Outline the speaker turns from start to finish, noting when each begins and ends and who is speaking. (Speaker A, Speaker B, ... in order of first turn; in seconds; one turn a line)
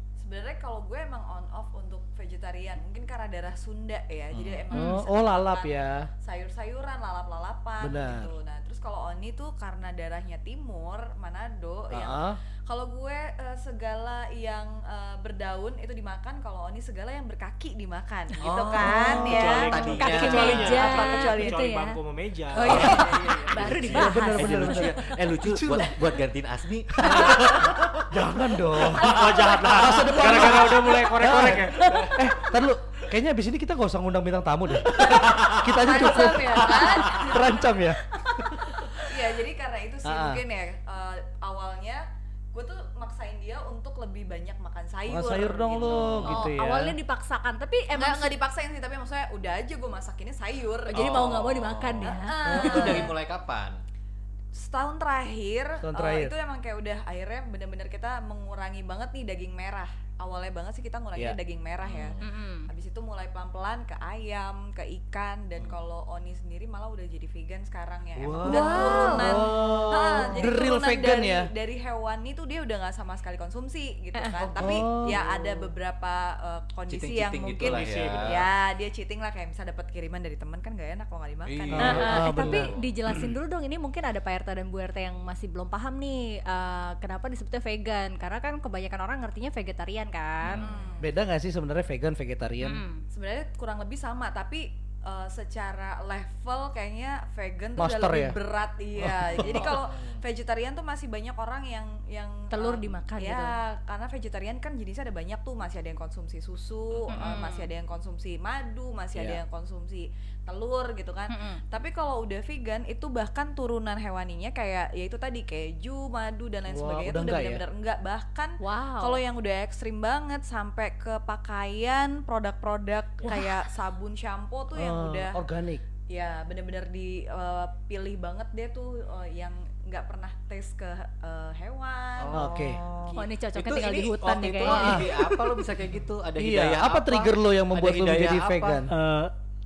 Speaker A: 0.2-21.7
Speaker B: 4.3-4.7
Speaker C: 4.7-6.1
Speaker D: 4.7-5.0
Speaker C: 7.8-8.3
Speaker C: 11.9-12.4
Speaker B: 18.4-20.9
Speaker E: 19.1-22.9
Speaker D: 20.0-22.0
Speaker A: 22.5-23.9
Speaker B: 22.6-32.7
Speaker D: 22.6-24.9
Speaker C: 23.7-26.0
Speaker C: 27.0-38.0
Speaker E: 29.0-31.8
Speaker D: 31.7-32.2
Speaker B: 34.8-37.4
Speaker A: 35.0-37.7
Speaker D: 38.2-38.9
Speaker A: 39.0-46.3
Speaker C: 40.0-40.4
Speaker C: 45.1-46.9
Speaker B: 45.8-46.4
Speaker D: 46.2-48.3
Speaker A: 48.0-51.4
Speaker D: 50.9-53.1
Speaker B: 50.9-53.8
Speaker A: 52.0-53.1
Speaker C: 52.5-53.0
Speaker A: 54.5-82.1
Speaker C: 55.8-56.3
Speaker B: 61.8-62.2
Speaker D: 62.2-62.7
Speaker C: 68.2-71.5
Speaker B: 68.3-70.6
Speaker D: 68.5-69.3
Speaker B: 74.4-75.3
Speaker C: 74.5-75.6
Speaker B: 76.9-78.5
Speaker E: 77.7-78.4
Speaker B: 81.5-83.3
Speaker C: 81.8-82.7
Speaker D: 81.8-90.7
Speaker B: 90.4-90.8
Speaker A: 90.5-91.1
Speaker C: 91.0-92.8
Speaker D: 92.6-93.0
Speaker A: 93.1-125.4
Speaker C: 97.8-98.4
Speaker C: 99.0-99.5
Speaker B: 99.2-100.2
Speaker D: 102.5-103.6
Speaker B: 107.0-107.5
Speaker D: 107.1-107.7
Speaker C: 109.2-109.4
Speaker D: 111.3-111.6
Speaker C: 116.7-117.6
Speaker D: 118.6-119.2
Speaker C: 124.7-125.8
Speaker A: 126.1-132.5
Speaker B: 132.2-138.9
Speaker C: 132.3-132.8
Speaker D: 133.1-135.6
Speaker C: 134.7-135.1
Speaker C: 136.4-138.9
Speaker E: 138.9-139.3